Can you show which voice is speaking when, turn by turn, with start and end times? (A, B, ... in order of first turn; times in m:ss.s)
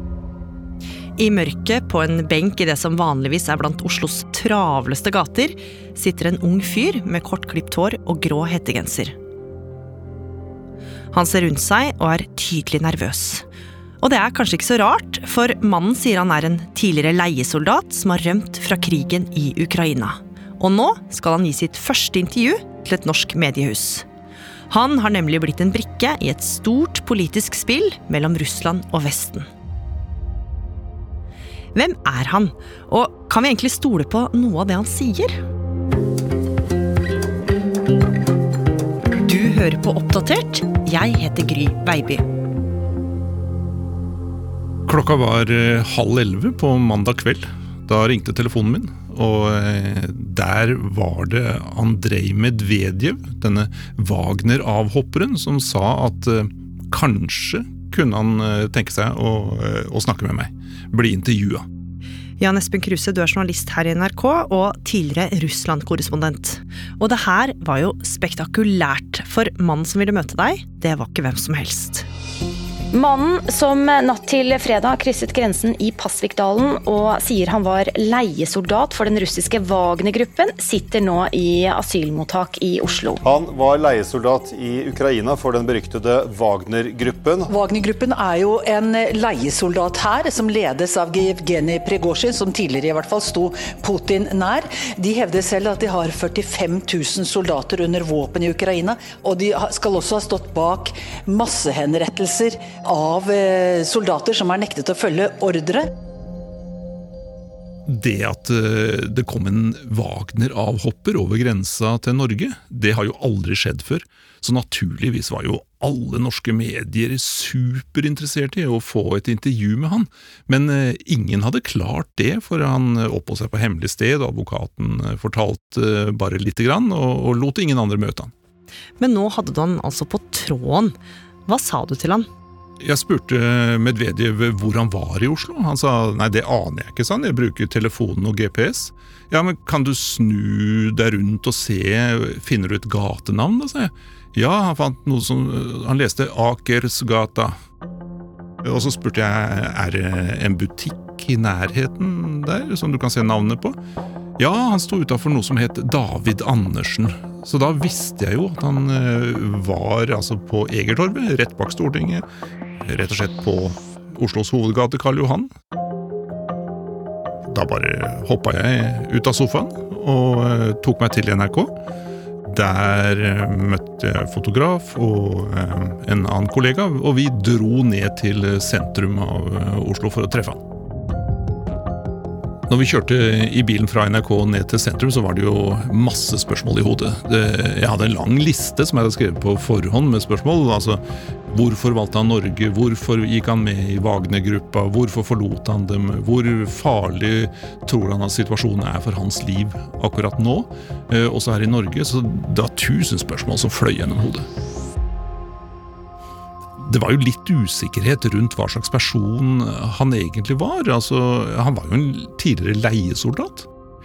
0:01.2-0:09.1 A
0:11.1-0:13.4 A
0:14.0-0:24.0 A
0:24.7-0:29.5 A
0:31.7-0:35.3 A
0:39.2-0:42.2 A
0:44.8-1:01.6 B
1:02.4-1:12.0 A
1:12.9-1:23.2 C
1:23.2-1:27.5 D
1:27.5-1:45.9 E
1:47.9-2:08.3 B
2:09.0-2:12.3 A
2:12.8-2:27.6 B
2:28.6-2:33.8 B
2:34.4-2:42.2 B
2:42.8-2:45.5 B
2:47.5-2:51.7 B
2:52.4-3:00.6 B
3:02.7-3:24.5 B
3:26.8-3:33.7 B